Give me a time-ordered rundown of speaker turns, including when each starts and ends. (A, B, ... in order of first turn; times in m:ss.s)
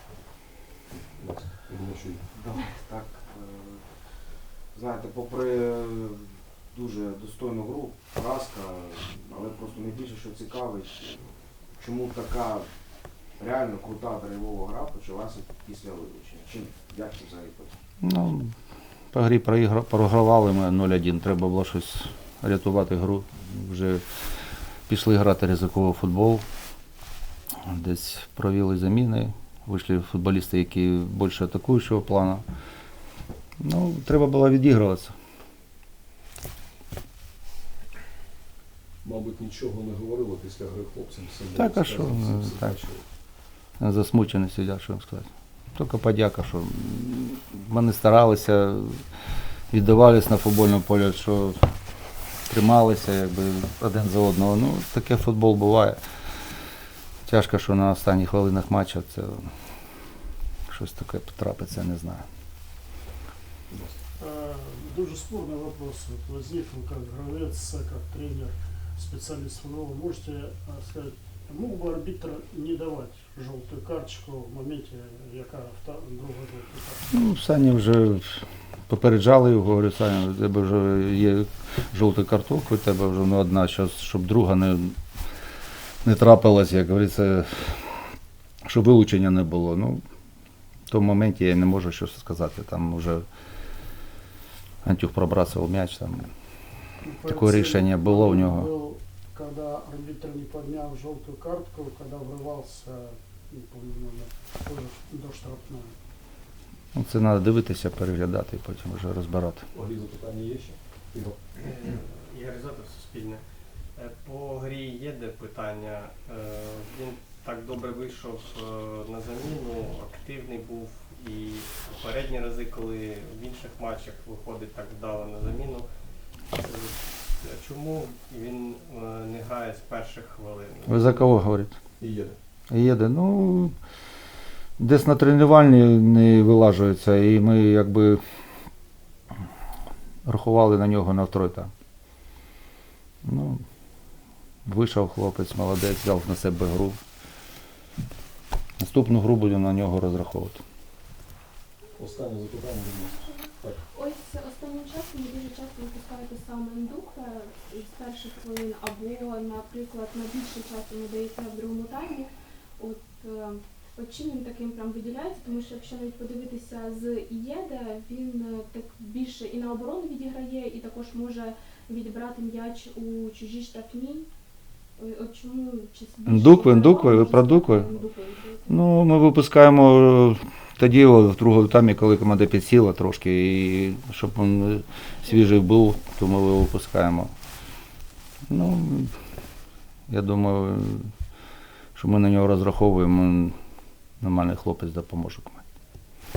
0:01.2-0:02.2 A
0:02.3-0:12.7 B
0:13.3-0:17.8 B
0:18.0-0:18.5 C
0:19.1-0:26.4 C
0:27.6-0:32.4 C
0:33.6-0:35.2 C
0:39.0-0:43.0 A
0:41.5-0:42.7 C
0:43.8-0:49.0 C
0:49.7-0:51.7 C
0:52.5-0:56.0 C
0:57.2-0:59.5 C
1:00.7-1:02.2 C
1:03.7-1:04.0 A
1:04.2-1:17.0 D
1:17.1-1:25.0 C
1:26.0-1:28.1 C
1:28.6-1:30.0 C
1:30.9-1:33.2 C
1:34.8-1:36.3 C
1:37.0-1:45.9 D
1:37.2-1:38.7 C
1:46.9-1:49.7 C
1:49.7-1:51.5 A
1:51.6-1:53.4 E
1:53.9-2:05.9 E
2:06.5-2:11.4 E
2:10.8-2:11.8 C
2:12.0-2:12.4 A
2:12.7-2:13.7 C
2:14.8-2:18.2 C
2:20.2-2:21.7 C
2:23.2-2:23.6 C
2:24.6-2:27.0 C
2:28.8-2:30.6 C
2:32.0-2:33.8 A
2:33.9-2:54.3 F
2:55.0-2:58.8 F
2:56.2-2:57.9 C
2:58.7-3:07.3 C
3:05.3-3:05.6 F
3:08.5-3:09.1 C
3:10.1-3:11.1 C
3:11.9-3:13.6 C
3:14.2-3:15.6 C